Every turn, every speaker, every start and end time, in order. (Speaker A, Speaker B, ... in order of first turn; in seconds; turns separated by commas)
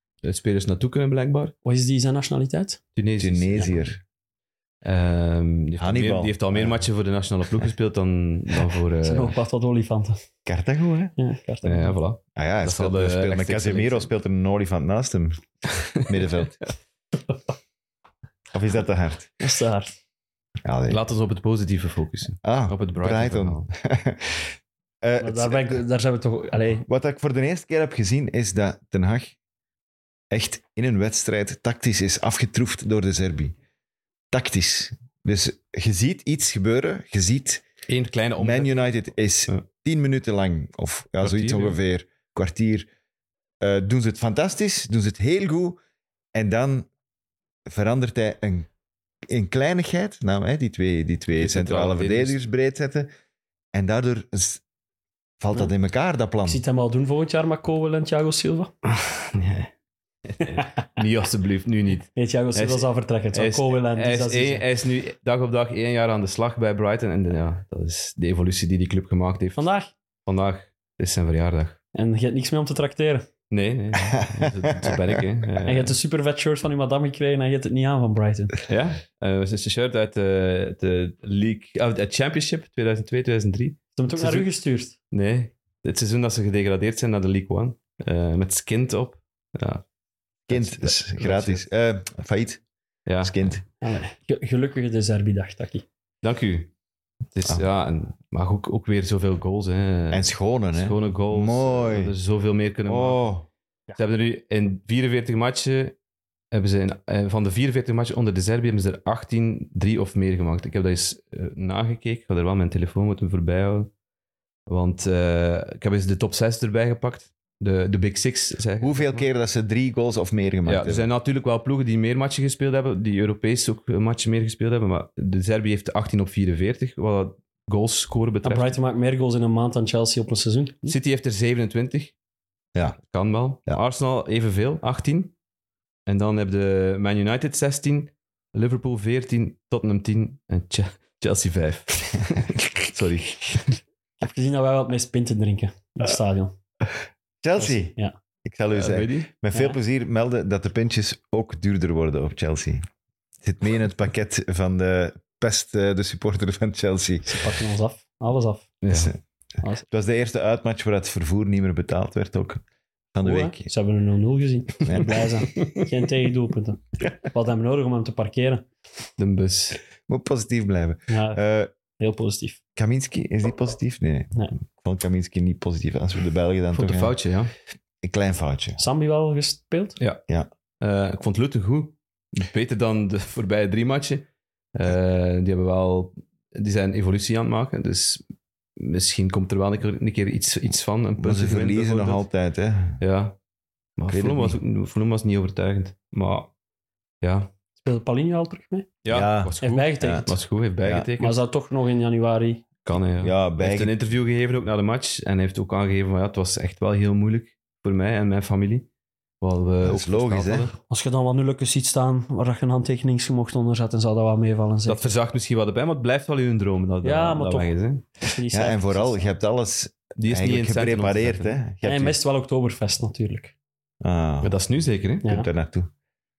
Speaker A: 0.2-1.5, Speaker B: 1.6-2.8, Speaker A: 3.0-3.8, Speaker C: 3.2-4.0, Speaker A: 4.8-9.3, Speaker C: 5.8-6.8, Speaker B: 9.0-10.2, Speaker C: 10.4-11.1, Speaker B: 11.2-12.0, Speaker A: 11.6-14.1, Speaker C: 12.3-16.6, Speaker C: 18.5-19.3, Speaker B: 19.4-20.0, Speaker C: 20.6-21.0, Speaker A: 20.9-23.6, Speaker C: 22.4-25.8, Speaker B: 25.2-26.9, Speaker C: 26.9-29.3, Speaker C: 30.3-33.5, Speaker C: 34.3-37.6, Speaker A: 37.9-39.6, Speaker C: 38.4-42.9, Speaker A: 41.2-41.8, Speaker C: 43.6-45.8, Speaker C: 46.3-46.9, Speaker C: 47.7-48.7, Speaker C: 49.2-53.1, Speaker A: 51.4-52.4, Speaker C: 53.7-54.6, Speaker C: 55.4-56.6, Speaker B: 56.4-58.7, Speaker A: 59.0-59.7, Speaker A: 60.3-69.6, Speaker B: 62.1-64.7, Speaker B: 69.5-69.9, Speaker A: 70.2-71.8, Speaker B: 71.9-73.3, Speaker A: 73.5-76.0, Speaker C: 74.2-75.0, Speaker B: 75.7-78.6, Speaker A: 78.7-84.5, Speaker B: 84.0-84.9, Speaker A: 85.1-89.8, Speaker C: 90.5-92.6, Speaker A: 90.5-91.6, Speaker A: 93.0-93.4, Speaker C: 93.2-93.6, Speaker B: 93.8-95.8, Speaker A: 96.2-96.7, Speaker A: 97.3-103.2, Speaker C: 100.1-102.1, Speaker C: 102.9-103.5, Speaker A: 104.0-106.0, Speaker A: 106.5-113.9, Speaker A: 114.7-119.3, Speaker C: 118.8-121.1, Speaker A: 120.7-128.8, Speaker B: 128.4-130.9, Speaker A: 130.9-132.1, Speaker A: 133.1-135.3, Speaker A: 136.1-143.7, Speaker B: 144.2-146.5, Speaker C: 147.4-152.8, Speaker B: 147.6-148.1, Speaker A: 148.7-149.3, Speaker C: 153.4-157.5, Speaker B: 157.2-158.7, Speaker A: 158.8-159.1, Speaker C: 158.9-159.2, Speaker C: 159.9-162.6, Speaker C: 163.1-163.7, Speaker B: 163.2-168.7, Speaker C: 164.8-165.5, Speaker A: 169.2-169.8, Speaker C: 170.1-171.7, Speaker B: 171.1-171.4, Speaker B: 172.0-172.6, Speaker C: 172.8-177.2, Speaker A: 176.7-177.5, Speaker C: 178.0-178.8, Speaker B: 178.8-180.0, Speaker A: 180.8-188.2, Speaker A: 188.8-192.2, Speaker C: 191.2-193.0, Speaker A: 193.0-193.4, Speaker A: 194.0-196.5, Speaker C: 194.1-194.6, Speaker A: 197.2-197.5, Speaker B: 197.8-198.9, Speaker A: 199.0-201.4, Speaker C: 199.1-200.2, Speaker B: 199.6-200.3, Speaker C: 200.8-201.1, Speaker B: 201.2-202.6, Speaker A: 202.8-208.9, Speaker C: 203.1-203.9, Speaker A: 209.4-210.8, Speaker C: 209.8-210.7, Speaker B: 210.9-215.1, Speaker A: 214.9-218.0, Speaker B: 217.0-219.2, Speaker C: 218.5-222.2, Speaker A: 220.2-221.6, Speaker B: 221.8-223.5, Speaker C: 224.0-224.5, Speaker A: 224.4-225.3, Speaker C: 225.2-225.9